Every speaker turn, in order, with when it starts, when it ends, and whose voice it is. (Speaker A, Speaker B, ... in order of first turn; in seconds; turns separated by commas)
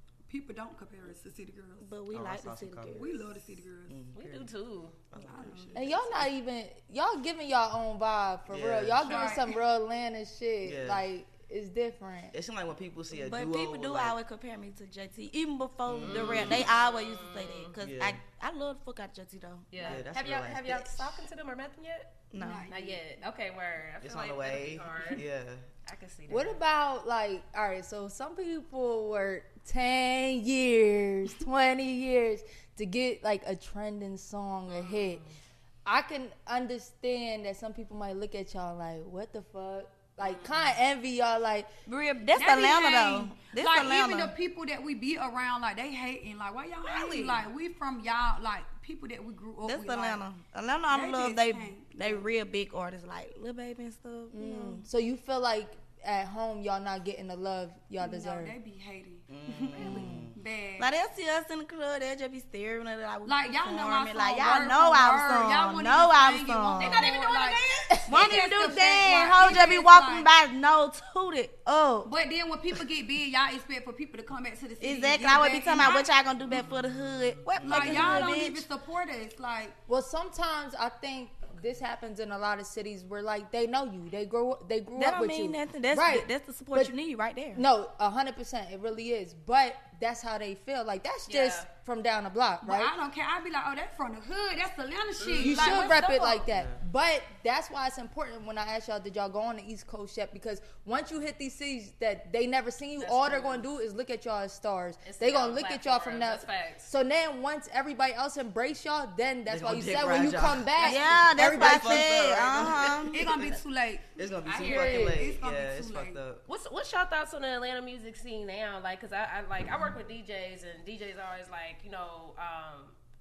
Speaker A: 0.3-1.9, Speaker B: 1.8-3.3, Speaker C: 2.1-3.0, Speaker A: 2.9-4.0, Speaker C: 3.9-4.5, Speaker D: 4.1-5.0, Speaker C: 5.1-6.2, Speaker A: 5.2-6.1, Speaker E: 5.7-12.3, Speaker C: 8.5-9.2, Speaker A: 9.0-9.6, Speaker C: 10.6-11.1, Speaker C: 12.3-14.2, Speaker B: 13.1-19.9, Speaker C: 15.9-16.6, Speaker D: 16.0-17.7, Speaker C: 17.8-18.2, Speaker D: 19.7-25.2, Speaker C: 19.8-21.2, Speaker B: 22.3-22.7, Speaker A: 22.4-23.0, Speaker C: 24.0-25.6, Speaker D: 25.9-26.6, Speaker E: 26.3-35.2, Speaker D: 34.7-35.4, Speaker E: 35.9-41.7, Speaker D: 40.2-40.7, Speaker B: 41.9-44.3, Speaker A: 42.3-50.2, Speaker D: 46.8-47.4, Speaker B: 49.6-54.9, Speaker A: 50.9-52.3, Speaker E: 54.3-58.6, Speaker A: 58.0-61.0, Speaker C: 59.3-60.4, Speaker E: 59.8-60.3, Speaker B: 60.8-67.0, Speaker A: 63.2-70.3, Speaker D: 66.8-68.0, Speaker B: 68.1-72.1, Speaker A: 72.0-76.1, Speaker B: 74.8-78.7, Speaker D: 75.8-76.6, Speaker C: 77.6-78.1, Speaker A: 77.6-79.8, Speaker E: 79.9-86.9, Speaker B: 85.0-87.6, Speaker E: 87.6-92.9, Speaker D: 91.3-91.7, Speaker A: 92.6-96.4, Speaker D: 95.2-95.9, Speaker E: 95.4-112.3, Speaker C: 96.5-96.8, Speaker D: 103.0-103.7, Speaker D: 105.0-106.9, Speaker C: 109.5-113.6, Speaker D: 110.8-111.2, Speaker B: 110.8-113.2, Speaker A: 113.1-116.2, Speaker C: 114.2-116.4, Speaker D: 114.5-114.9, Speaker E: 114.6-115.3, Speaker D: 116.5-123.0